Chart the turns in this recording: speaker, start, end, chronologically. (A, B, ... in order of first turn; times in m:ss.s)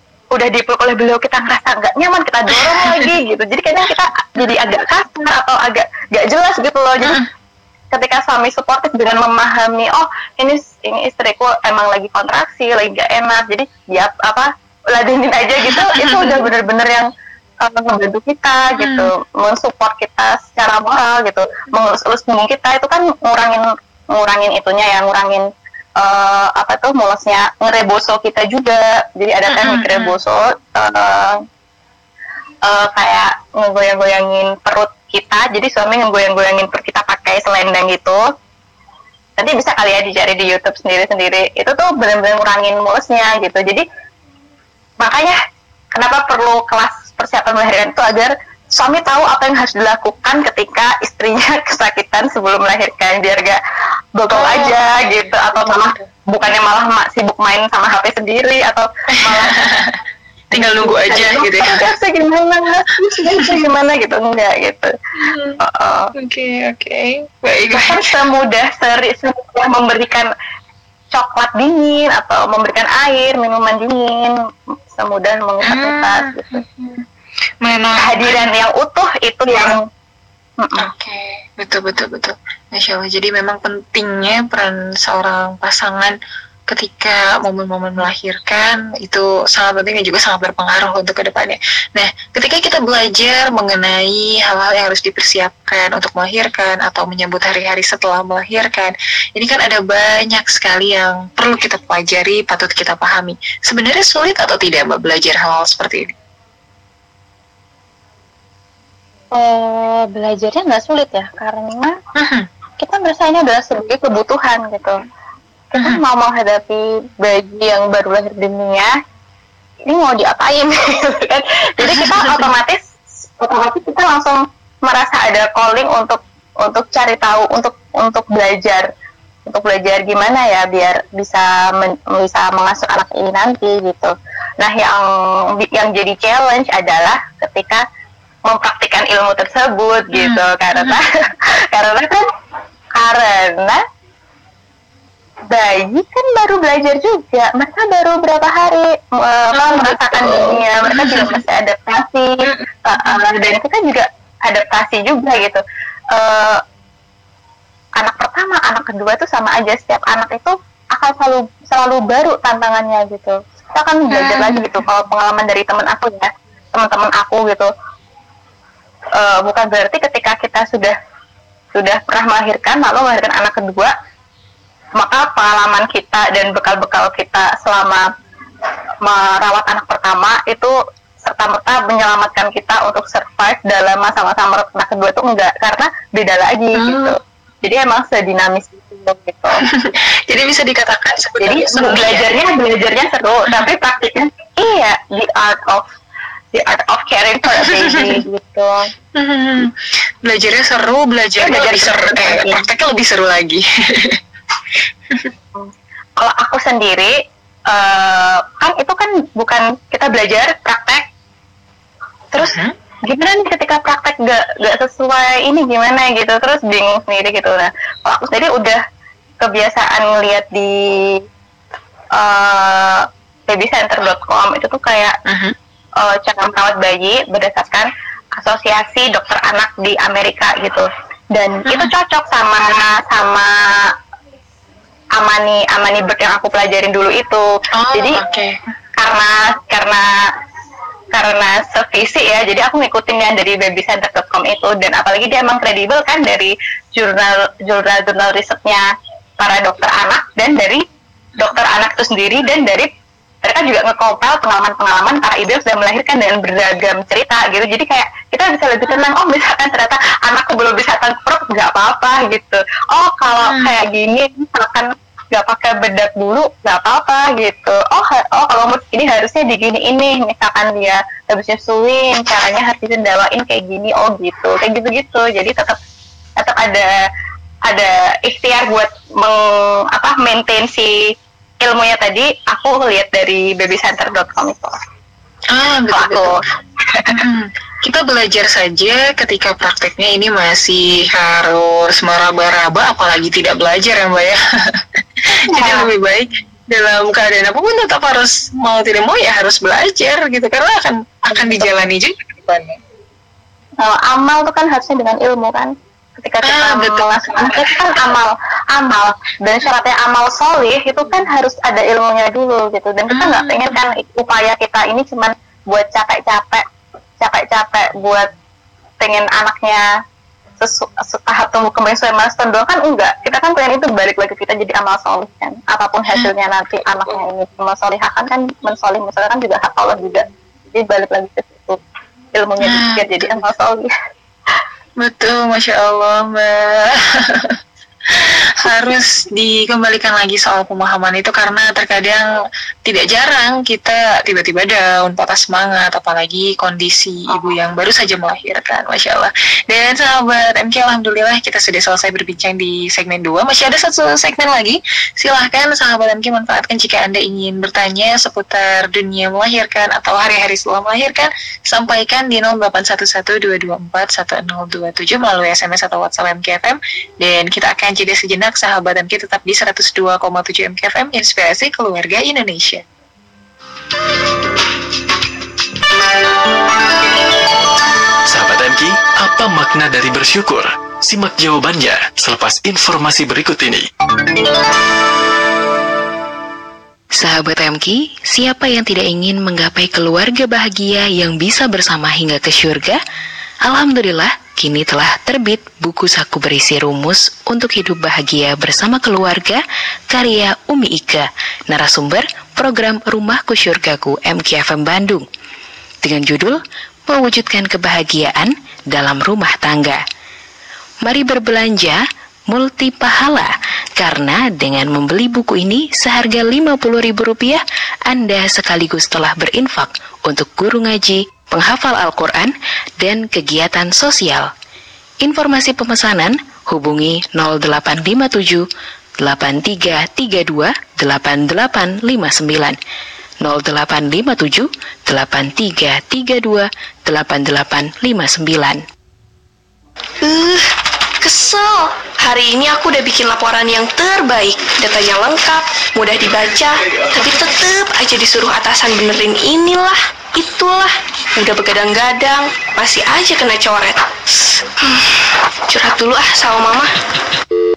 0:00.3-0:07.2 A
0:02.5-0:03.1 B
0:07.9-0:17.0 A
0:15.6-0:16.4 B
0:17.6-0:25.5 A
0:18.8-0:19.1 B
0:26.0-0:31.4 A
0:29.5-0:30.2 B
0:32.6-0:38.2 A
0:39.4-0:43.8 A
0:45.0-0:45.4 A
0:45.9-0:53.6 A
0:54.2-0:59.6 A
0:54.3-0:56.1 B
0:59.3-1:00.0 B
1:00.5-1:01.8 B
1:00.5-1:04.9 A
1:05.2-1:05.6 B
1:05.6-1:06.1 A
1:06.2-1:08.1 B
1:07.7-1:10.3 A
1:11.1-1:14.3 A
1:14.9-1:16.6 A
1:15.6-1:17.0 B
1:17.6-1:18.5 B
1:18.0-1:19.8 A
1:20.6-1:20.9 A
1:20.8-1:26.1 B
1:26.7-1:46.1 B
1:49.3-1:52.0 A
1:52.2-1:52.5 B
1:52.8-1:55.0 A
1:55.7-1:58.9 A
1:59.9-2:08.9 A
2:01.8-2:02.5 B
2:09.4-2:17.8 A
2:18.5-2:22.3 A
2:20.1-2:21.0 B
2:22.9-2:23.8 A
2:25.5-2:32.3 A
2:29.5-2:31.4 B
2:32.4-2:33.2 B
2:32.8-2:36.6 A
2:38.0-2:47.7 A
2:44.1-2:44.8 B
2:49.2-2:51.0 A
2:51.7-2:53.9 A
2:55.0-2:58.1 A
2:59.0-3:09.6 A
3:06.8-3:07.2 B
3:09.6-3:12.3 B
3:11.4-3:15.9 A
3:16.5-3:18.8 A
3:17.6-3:18.2 B
3:19.2-3:19.7 B
3:20.2-3:24.2 B
3:21.4-3:22.6 A
3:25.5-3:27.2 A
3:27.7-3:31.1 A
3:32.4-3:32.7 B
3:33.1-3:38.8 A
3:39.4-3:41.2 A
3:42.1-3:45.2 A
3:45.3-3:45.6 B
3:46.0-3:53.9 A
3:51.6-3:51.9 B
3:55.2-3:58.2 A
3:57.8-3:58.6 B
3:59.0-4:00.1 A
4:01.1-4:08.9 A
4:09.4-4:10.8 A
4:11.4-4:12.9 A
4:13.4-4:35.8 A
4:23.4-4:23.7 B
4:36.4-4:36.9 A
4:37.6-4:41.0 A
4:41.6-4:44.8 A
4:45.5-4:46.4 B
4:45.9-4:47.1 A
4:47.1-5:02.8 B
4:55.5-4:55.9 A
5:01.3-5:01.7 A
5:03.8-5:16.6 A
5:06.4-5:08.0 B
5:13.1-5:13.9 B
5:17.2-5:18.3 A
5:19.0-5:19.8 A
5:20.6-5:31.8 A
5:32.3-5:33.9 A
5:32.6-5:33.4 B
5:35.0-5:37.6 B
5:38.1-5:42.3 B
5:42.8-6:12.8 B
6:18.3-6:23.9 C
6:27.2-6:33.0 D
6:33.6-6:39.6 D
6:40.1-6:45.2 D
6:46.0-6:50.0 D
6:51.0-7:04.5 D
7:05.2-7:08.6 D
7:09.2-7:12.8 D
7:13.4-7:18.8 D
7:20.2-7:20.6 E
7:21.2-7:34.0 E
7:35.7-7:36.9 E